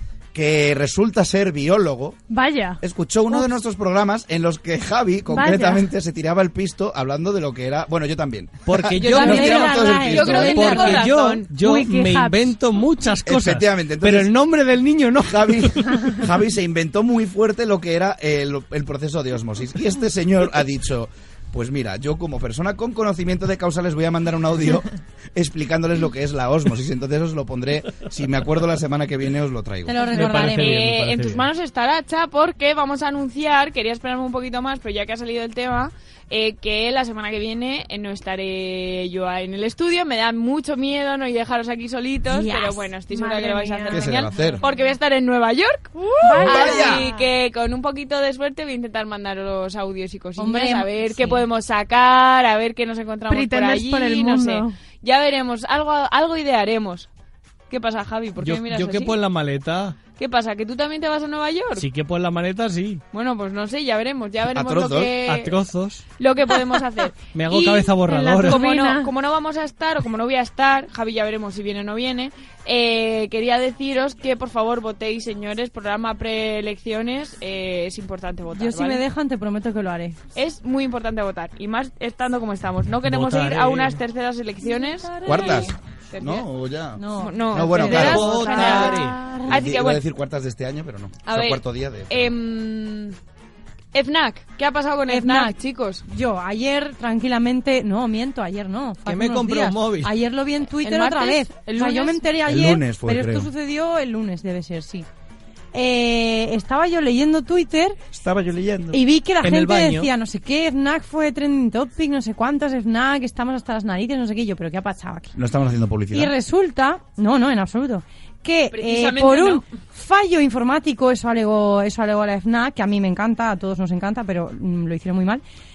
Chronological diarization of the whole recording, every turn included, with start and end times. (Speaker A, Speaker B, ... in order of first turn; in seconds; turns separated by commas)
Speaker A: 0.3-2.2, Speaker B: 2.3-2.8, Speaker A: 2.8-11.0, Speaker B: 5.3-5.9, Speaker C: 8.7-16.0, Speaker D: 9.0-11.5, Speaker E: 9.1-11.0, Speaker B: 11.6-12.5, Speaker A: 13.2-14.3, Speaker A: 15.2-30.1, Speaker E: 29.9-30.8, Speaker C: 30.1-31.4, Speaker D: 30.3-57.1, Speaker B: 42.3-44.8, Speaker A: 43.9-44.6, Speaker B: 46.2-47.2, Speaker A: 46.4-47.0, Speaker E: 50.4-51.4, Speaker B: 53.3-54.7, Speaker D: 57.7-59.1, Speaker C: 58.4-60.0, Speaker D: 60.1-61.9, Speaker C: 61.7-63.0, Speaker D: 63.1-65.5, Speaker A: 64.5-65.2, Speaker C: 65.2-66.0, Speaker D: 66.2-79.0, Speaker C: 67.3-68.6, Speaker B: 68.0-69.1, Speaker E: 78.6-80.2, Speaker D: 80.3-86.5, Speaker C: 83.0-84.0, Speaker E: 85.2-85.6, Speaker A: 85.2-88.4, Speaker E: 87.0-89.5, Speaker D: 87.2-90.0, Speaker C: 87.8-89.2, Speaker A: 89.5-92.3, Speaker D: 91.2-93.2, Speaker D: 93.9-96.0, Speaker E: 95.1-95.5, Speaker E: 96.1-105.0, Speaker C: 99.0-100.1, Speaker D: 100.8-102.2, Speaker A: 102.5-103.5, Speaker E: 105.7-108.0, Speaker A: 108.1-109.0, Speaker E: 108.9-115.3, Speaker C: 109.4-110.1, Speaker A: 115.3-116.3, Speaker E: 116.1-125.4, Speaker D: 118.7-119.7